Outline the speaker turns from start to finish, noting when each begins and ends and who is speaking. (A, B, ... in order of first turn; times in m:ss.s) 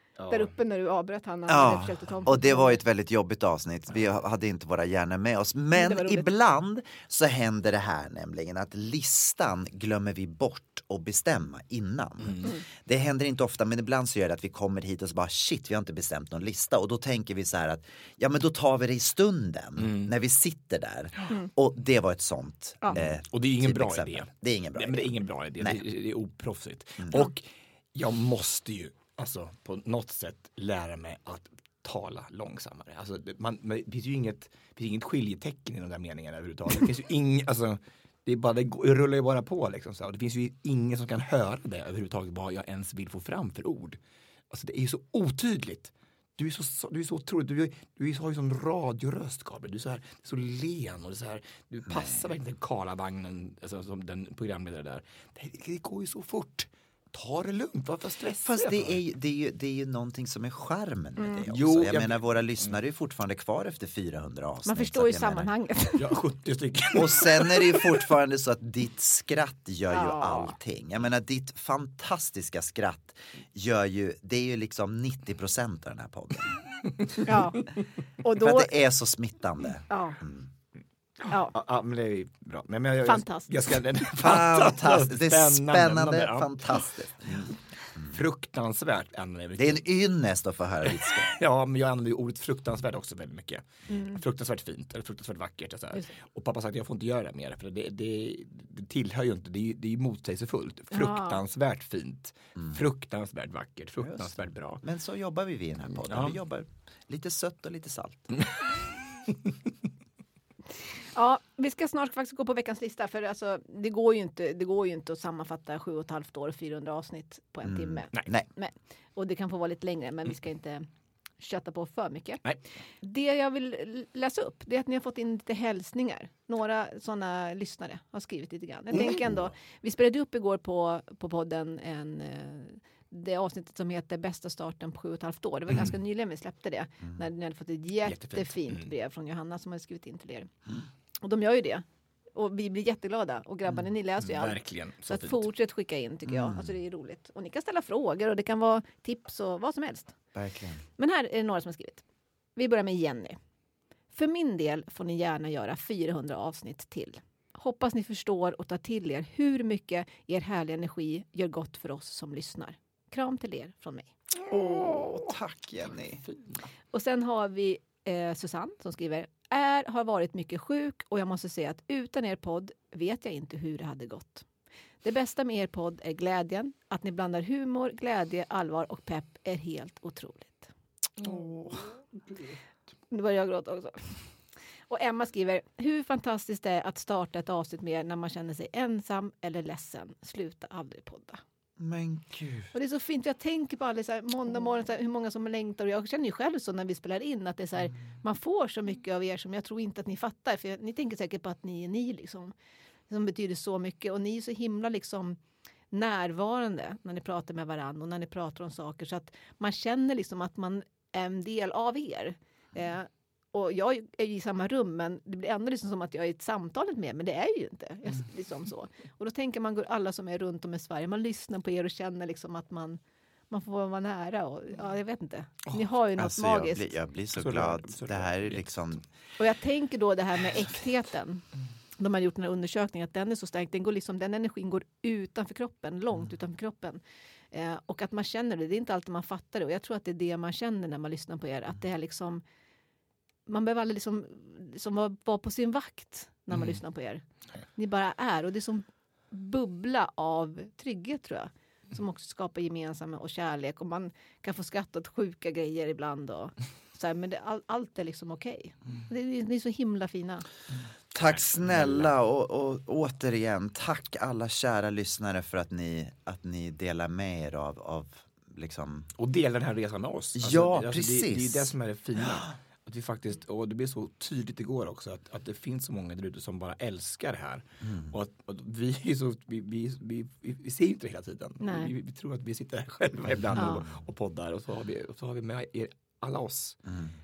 0:00.2-0:00.5 A
0:00.3-0:02.8 B
0:01.5-0:25.8 C
0:05.8-0:06.2 A
0:12.2-0:12.5 A
0:19.8-0:20.1 A
0:22.9-0:44.0 A
0:44.5-0:59.0 A
0:51.9-0:52.1 C
0:58.4-1:05.5 C
1:01.2-1:01.5 B
1:01.5-1:02.8 A
1:04.7-1:06.0 B
1:06.0-1:08.0 A
1:06.9-1:16.6 C
1:09.9-1:10.6 B
1:17.2-1:17.7 B
1:18.2-1:18.7 B
1:18.3-1:20.5 C
1:19.9-1:20.2 B
1:21.5-1:27.4 A
1:23.0-1:23.8 B
1:24.2-1:28.1 C
1:28.0-1:30.0 A
1:29.6-1:31.3 C
1:30.9-1:44.8 A
1:33.9-1:34.2 B
1:40.9-1:41.4 B
1:44.0-1:48.3 C
1:46.1-1:46.4 A
1:51.2-2:00.9 B
1:57.6-1:58.5 C
2:01.4-2:02.4 B
2:03.0-2:20.5 B
2:09.0-2:09.3 A
2:18.0-2:18.9 A
2:21.2-2:30.2 B
2:24.3-2:25.4 A
2:26.3-2:26.8 C
2:30.4-2:30.8 C
2:31.0-2:32.0 B
2:32.6-2:33.4 B
2:34.1-2:44.1 B
2:44.5-2:46.2 C
2:46.9-2:54.4 B
2:55.0-3:01.5 B
3:01.2-3:01.8 A
3:03.1-3:04.3 B
3:04.9-3:11.4 B
3:11.8-3:12.7 C
3:12.7-3:22.5 B
3:23.1-3:25.4 B
3:25.9-3:43.0 B
3:43.5-3:46.9 B
3:46.2-3:49.0 C
3:47.4-3:49.0 A
3:49.4-3:51.4 B
3:52.0-3:57.0 B
3:57.5-4:02.4 B
4:03.5-4:07.2 B
4:06.5-4:06.8 A
4:07.8-4:20.5 B
4:21.1-4:29.1 C
4:21.2-4:22.1 A
4:29.2-4:46.8 A
4:30.4-4:31.7 C
4:37.8-4:38.1 C
4:41.6-4:41.9 B
4:43.5-4:43.9 C
4:43.6-4:43.8 B
4:46.9-4:47.2 C